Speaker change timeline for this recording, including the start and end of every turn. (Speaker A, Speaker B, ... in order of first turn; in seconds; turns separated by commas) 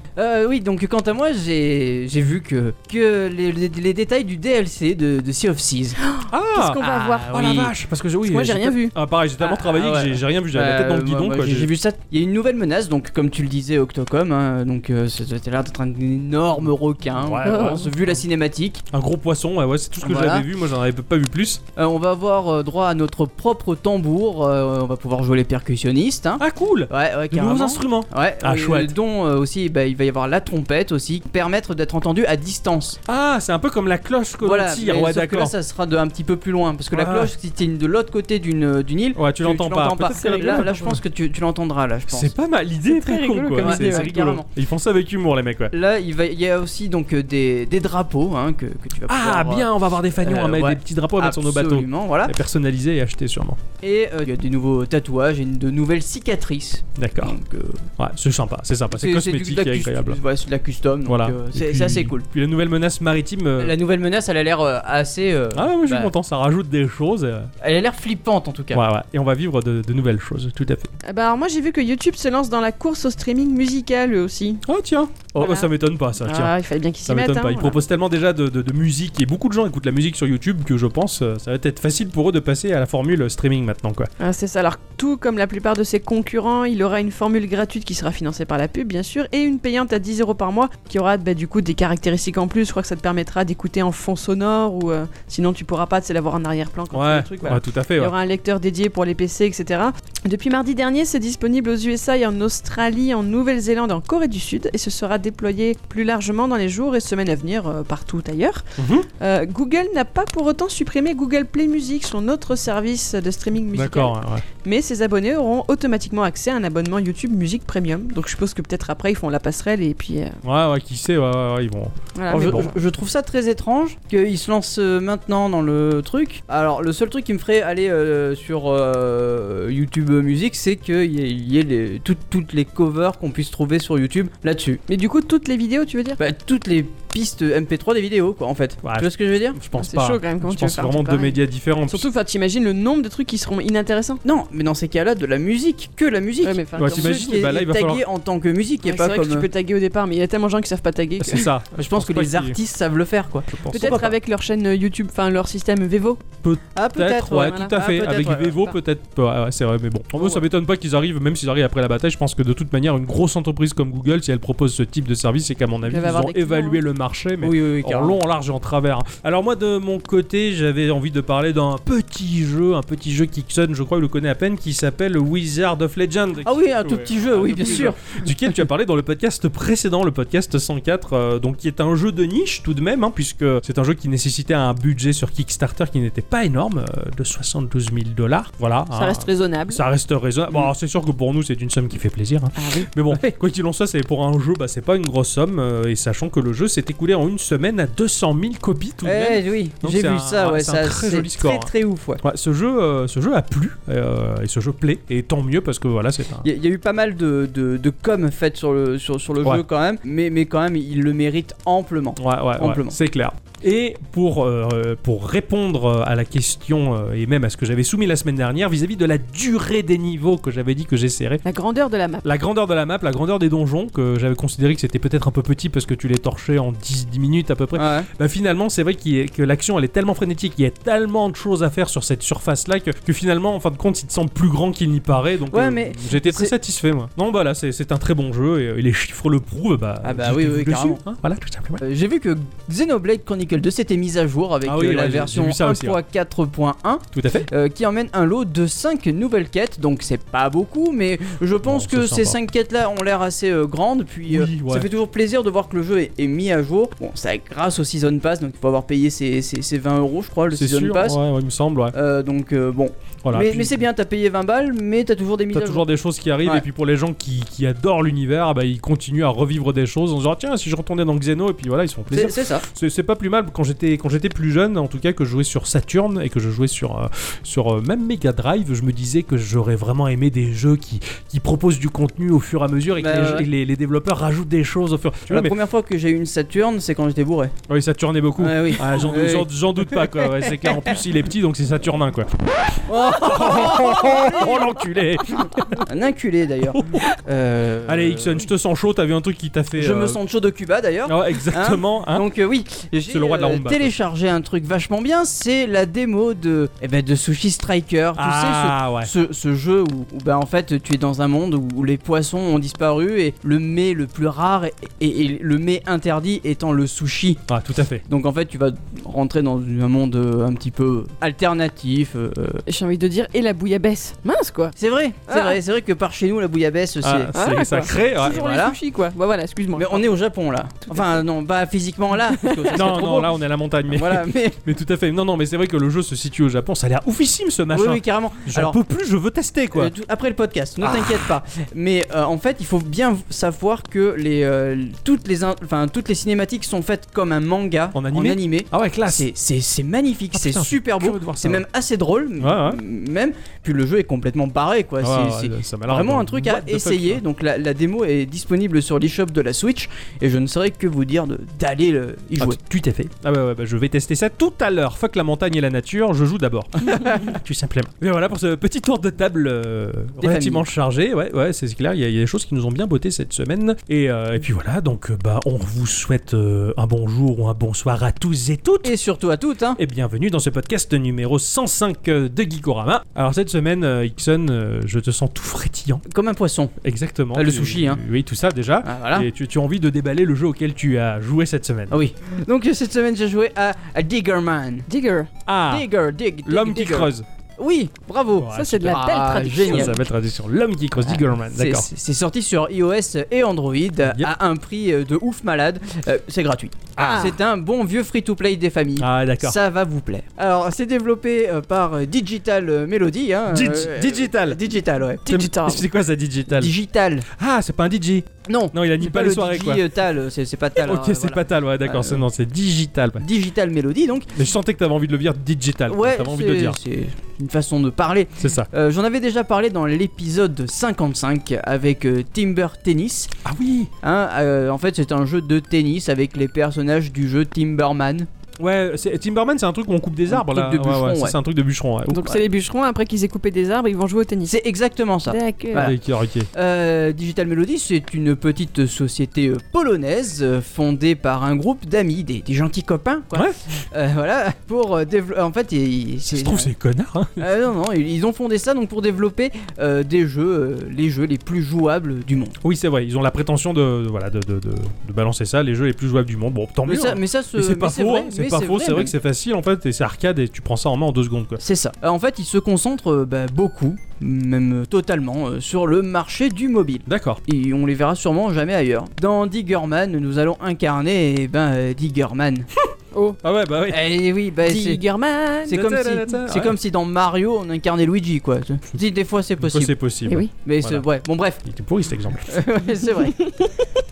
Speaker A: 0.2-6.0, Speaker B: 6.0-7.7, Speaker C: 6.3-11.7, Speaker A: 6.8-7.7, Speaker B: 8.2-8.9, Speaker A: 9.4-18.8, Speaker C: 17.2-18.2, Speaker B: 17.4-17.9, Speaker C: 18.9-21.6, Speaker A: 20.0-20.5, Speaker A: 21.8-33.0, Speaker C: 26.4-28.9, Speaker C: 33.1-35.5, Speaker A: 34.4-42.3, Speaker C: 36.9-37.3, Speaker C: 39.2-41.0, Speaker B: 40.1-41.0, Speaker C: 42.1-45.7, Speaker B: 42.9-44.1, Speaker A: 43.6-44.5, Speaker A: 45.7-52.3, Speaker C: 49.1-53.6, Speaker A: 53.8-57.9, Speaker C: 57.0-57.4, Speaker C: 58.0-60.2, Speaker A: 58.9-62.3, Speaker C: 61.1-63.8, Speaker A: 63.6-66.1, Speaker C: 65.5-67.5, Speaker A: 67.6-68.8, Speaker C: 68.7-70.9, Speaker B: 71.0-74.7, Speaker C: 74.7-76.5, Speaker B: 75.4-77.8, Speaker C: 77.0-84.1, Speaker B: 84.2-108.7, Speaker C: 96.9-98.1, Speaker C: 108.8-109.1, Speaker B: 109.2-120.4, Speaker C: 113.7-114.4, Speaker C: 120.4-122.7, Speaker B: 122.2-122.6, Speaker A: 122.3-134.8, Speaker B: 134.9-136.2, Speaker A: 136.2-139.6, Speaker C: 138.8-142.1, Speaker B: 139.8-144.2, Speaker A: 144.2-149.5, Speaker B: 146.4-147.2, Speaker C: 146.8-148.0, Speaker B: 148.8-151.5, Speaker C: 151.2-152.6, Speaker A: 151.8-154.1, Speaker C: 153.5-154.1, Speaker B: 153.7-156.2, Speaker C: 156.4-201.7, Speaker A: 156.8-158.7, Speaker B: 157.3-157.8, Speaker B: 165.9-166.8, Speaker A: 167.4-168.2, Speaker A: 176.4-178.3, Speaker B: 188.9-189.8, Speaker B: 192.6-192.9, Speaker A: 199.0-202.2, Speaker C: 202.2-206.5, Speaker A: 206.4-213.0, Speaker C: 212.2-221.4, Speaker B: 221.4-222.2, Speaker C: 222.2-241.8, Speaker A: 227.7-228.1, Speaker A: 235.5-236.5, Speaker A: 240.0-241.0, Speaker A: 241.8-261.2, Speaker C: 244.6-246.0, Speaker C: 247.1-247.5, Speaker C: 251.6-252.4, Speaker C: 254.3-254.9, Speaker C: 260.5-261.9, Speaker A: 261.9-265.9, Speaker C: 263.2-263.8, Speaker C: 265.5-285.6, Speaker A: 272.1-272.6, Speaker A: 283.0-283.5, Speaker A: 285.3-287.5, Speaker C: 287.7-295.9, Speaker A: 288.4-290.9, Speaker A: 292.9-294.8, Speaker A: 295.4-298.5, Speaker C: 296.6-297.1, Speaker C: 297.9-300.2, Speaker A: 299.8-317.4, Speaker C: 301.1-302.2, Speaker C: 303.1-303.9, Speaker C: 308.2-309.1, Speaker C: 317.5-318.0, Speaker A: 318.1-322.6, Speaker B: 322.7-324.7, Speaker A: 324.8-327.4, Speaker B: 325.3-325.6, Speaker C: 327.0-328.4, Speaker B: 327.3-330.1, Speaker A: 328.2-328.8, Speaker A: 329.8-333.3, Speaker B: 330.9-331.2, Speaker B: 332.3-332.7, Speaker C: 332.7-339.9, Speaker A: 333.9-334.6, Speaker A: 337.7-338.8, Speaker A: 339.7-362.6, Speaker C: 340.8-341.2, Speaker C: 347.9-349.3, Speaker C: 350.3-351.6, Speaker C: 352.4-352.8, Speaker C: 355.0-357.2, Speaker C: 362.4-378.9, Speaker A: 370.2-370.6, Speaker A: 378.8-379.8, Speaker C: 379.8-386.0, Speaker A: 386.1-386.7, Speaker C: 386.8-392.0, Speaker A: 387.3-388.0, Speaker A: 388.8-389.3, Speaker A: 391.9-394.9, Speaker B: 394.9-395.3, Speaker C: 395.5-395.9, Speaker A: 395.7-399.9, Speaker C: 396.4-397.3, Speaker C: 398.4-401.9, Speaker B: 398.5-400.0, Speaker A: 401.4-415.4, Speaker C: 407.0-407.3, Speaker B: 407.0-407.4, Speaker C: 409.0-409.6, Speaker C: 413.5-414.6, Speaker B: 415.3-415.9, Speaker C: 415.3-416.7, Speaker A: 416.5-417.3, Speaker C: 417.3-419.9, Speaker A: 418.5-422.2, Speaker C: 420.8-423.3, Speaker A: 423.2-424.3, Speaker C: 424.3-426.8, Speaker A: 425.9-433.3, Speaker C: 428.4-428.7, Speaker C: 433.4-433.9, Speaker A: 434.0-438.3, Speaker C: 438.6-442.4, Speaker A: 440.3-441.4, Speaker B: 442.1-444.5, Speaker A: 444.5-446.0, Speaker B: 445.3-445.9, Speaker C: 445.8-446.5, Speaker A: 446.5-456.7, Speaker C: 453.3-453.6, Speaker C: 456.4-457.4, Speaker A: 457.4-462.6, Speaker C: 462.6-471.6, Speaker A: 466.9-469.1, Speaker A: 471.6-482.7, Speaker C: 477.1-477.4, Speaker B: 483.1-483.4, Speaker C: 483.4-484.1, Speaker A: 483.9-485.0, Speaker B: 484.6-485.8, Speaker C: 485.7-486.8, Speaker A: 485.7-489.9, Speaker C: 489.6-491.1, Speaker A: 490.6-491.6, Speaker C: 491.6-492.6, Speaker A: 492.5-493.4, Speaker B: 493.4-493.7